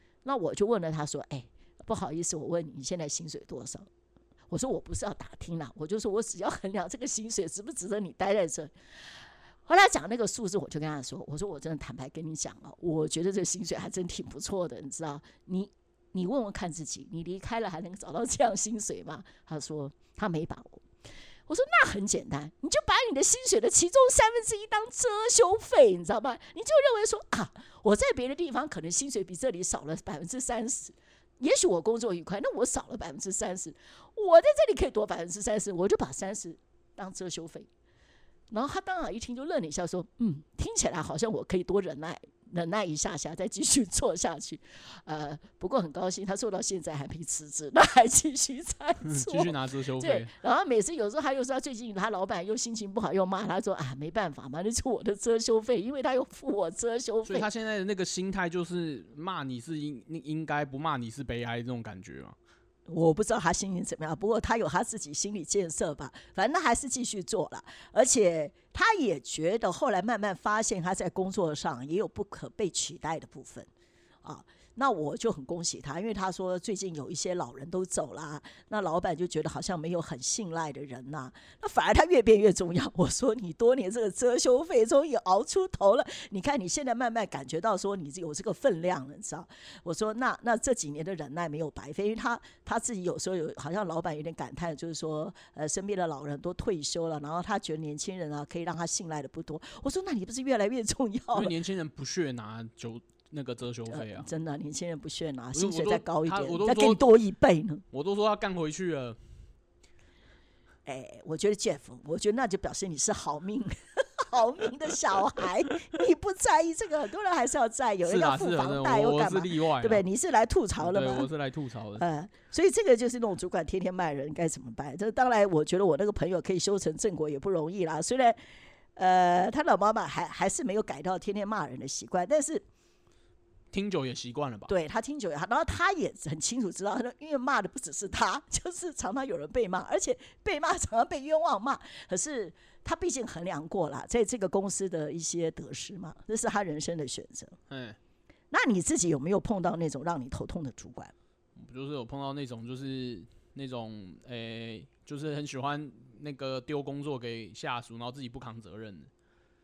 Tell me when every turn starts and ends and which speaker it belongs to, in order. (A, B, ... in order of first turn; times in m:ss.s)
0:00.2-0:03.9 A
0:04.5-0:08.7 A
0:09.7-0:20.8 A
0:21.5-0:37.7 A
0:38.5-0:57.5 A
0:49.0-0:50.3 B
0:57.2-1:02.4 B
1:02.9-1:13.7 A
1:14.2-1:41.5 A
1:41.3-1:44.3 B
1:43.9-1:47.8 A
1:45.6-1:47.0 B
1:47.9-1:49.2 B
1:50.9-2:01.3 A
1:58.0-2:00.0 B
2:00.8-2:02.0 B
2:02.0-2:08.4 A
2:09.0-2:12.6 A
2:13.7-2:14.7 B
2:14.7-2:27.6 A
2:27.7-2:28.0 B
2:28.5-2:31.1 A
2:31.6-2:39.1 B